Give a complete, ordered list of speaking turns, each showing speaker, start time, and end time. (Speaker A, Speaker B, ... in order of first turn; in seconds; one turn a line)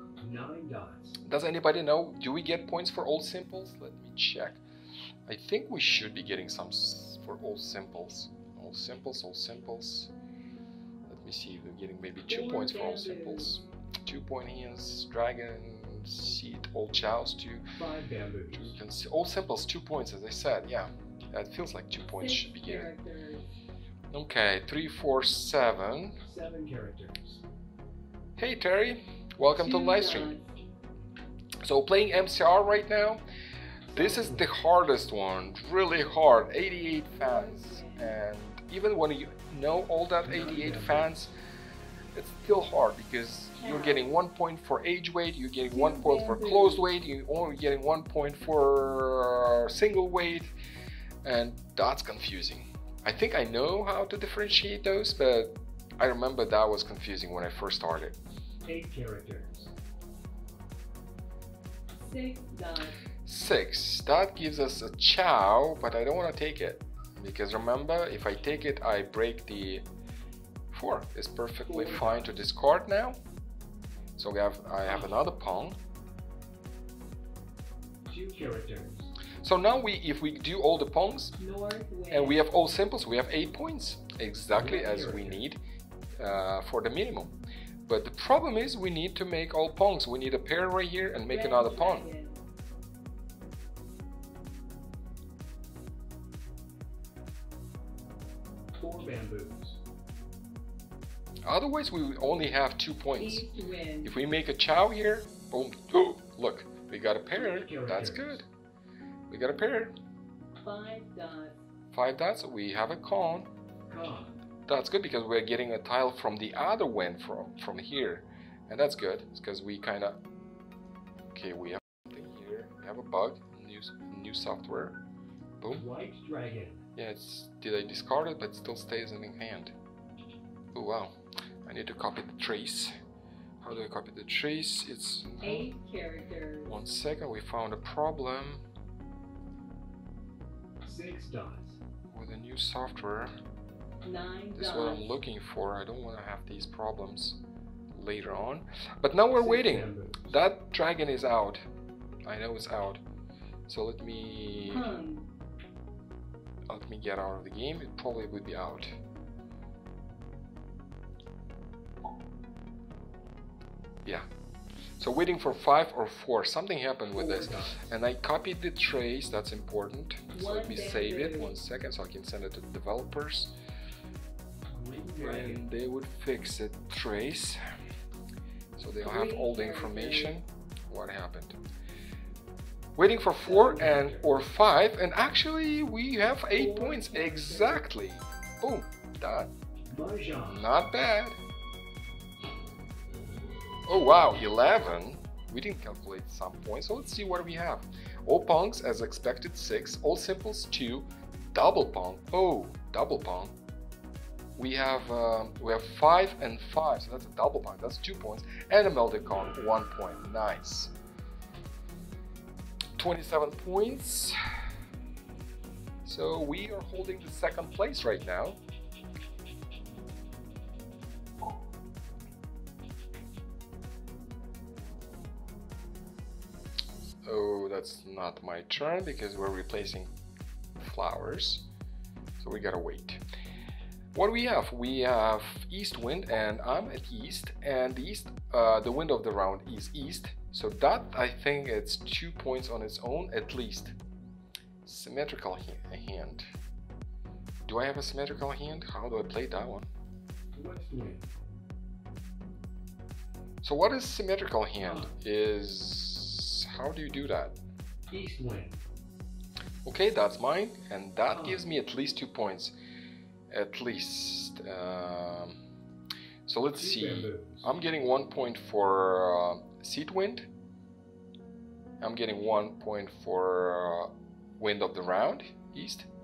Speaker A: 0.2-1.2
Speaker B: 1.2-4.6
Speaker B: 5.3-10.1
Speaker B: 11.1-17.8
Speaker C: 12.3-13.6
Speaker A: 17.8-18.8
Speaker B: 18.5-22.9
Speaker C: 22.1-23.5
Speaker B: 24.1-26.2
Speaker A: 26.2-27.4
Speaker B: 28.4-30.4
Speaker C: 29.5-30.5
Speaker B: 31.6-33.2
Speaker A: 33.9-34.5
Speaker B: 33.9-41.3
Speaker C: 37.1-38.2
Speaker A: 40.2-41.1
Speaker B: 42.1-50.5
Speaker C: 43.6-44.1
Speaker C: 45.7-46.9
Speaker B: 51.2-58.2
Speaker A: 58.7-59.7
Speaker C: 62.0-63.0
Speaker B: 63.2-69.8
Speaker B: 70.7-73.2
Speaker A: 71.7-72.4
Speaker B: 74.2-75.8
Speaker A: 74.8-75.2
Speaker A: 78.1-79.1
Speaker B: 79.4-81.3
Speaker C: 81.4-82.4
Speaker B: 82.1-85.6
Speaker A: 84.5-85.5
Speaker B: 86.2-87.3
Speaker B: 87.9-92.1
Speaker C: 91.3-92.4
Speaker A: 98.8-99.8
Speaker B: 101.5-103.5
Speaker C: 103.2-104.2
Speaker B: 104.0-108.5
Speaker A: 107.3-108.4
Speaker B: 109.3-109.9
Speaker C: 110.6-111.6
Speaker B: 111.9-113.5
Speaker A: 113.9-114.4
Speaker B: 114.7-120.2
Speaker B: 121.3-125.0
Speaker B: 125.6-125.9
Speaker A: 125.7-126.9
Speaker B: 127.0-129.7
Speaker B: 130.7-132.9
Speaker B: 133.6-135.7
Speaker C: 135.4-136.8
Speaker B: 136.6-138.6
Speaker A: 140.8-141.8
Speaker B: 142.1-143.3
Speaker C: 144.0-145.2
Speaker B: 144.6-147.4
Speaker B: 147.9-151.6
Speaker A: 149.3-150.4
Speaker B: 152.3-153.0
Speaker B: 153.7-154.9
Speaker C: 154.6-155.3
Speaker B: 156.7-158.9
Speaker B: 165.0-173.5
Speaker A: 167.2-167.9
Speaker C: 170.3-171.6
Speaker A: 174.7-175.7
Speaker B: 175.2-177.6
Speaker B: 178.8-181.6
Speaker C: 179.0-180.4
Speaker B: 183.0-189.5
Speaker A: 183.4-184.3
Speaker C: 186.5-187.9
Speaker A: 189.9-190.7
Speaker B: 190.4-191.4
Speaker B: 193.9-203.6
Speaker B: 204.6-210.9
Speaker B: 213.0-214.4
Speaker B: 216.1-218.6
Speaker B: 227.2-230.1
Speaker B: 230.8-231.7
Speaker B: 232.4-233.2
Speaker B: 234.1-243.9
Speaker B: 244.8-246.4
Speaker B: 247.7-249.9
Speaker A: 250.5-251.3
Speaker B: 253.6-257.6
Speaker A: 254.8-255.2
Speaker A: 258.1-258.8
Speaker B: 259.9-262.7
Speaker A: 261.3-261.7
Speaker B: 263.5-265.6
Speaker B: 266.5-270.5
Speaker A: 266.6-267.7
Speaker B: 272.0-276.1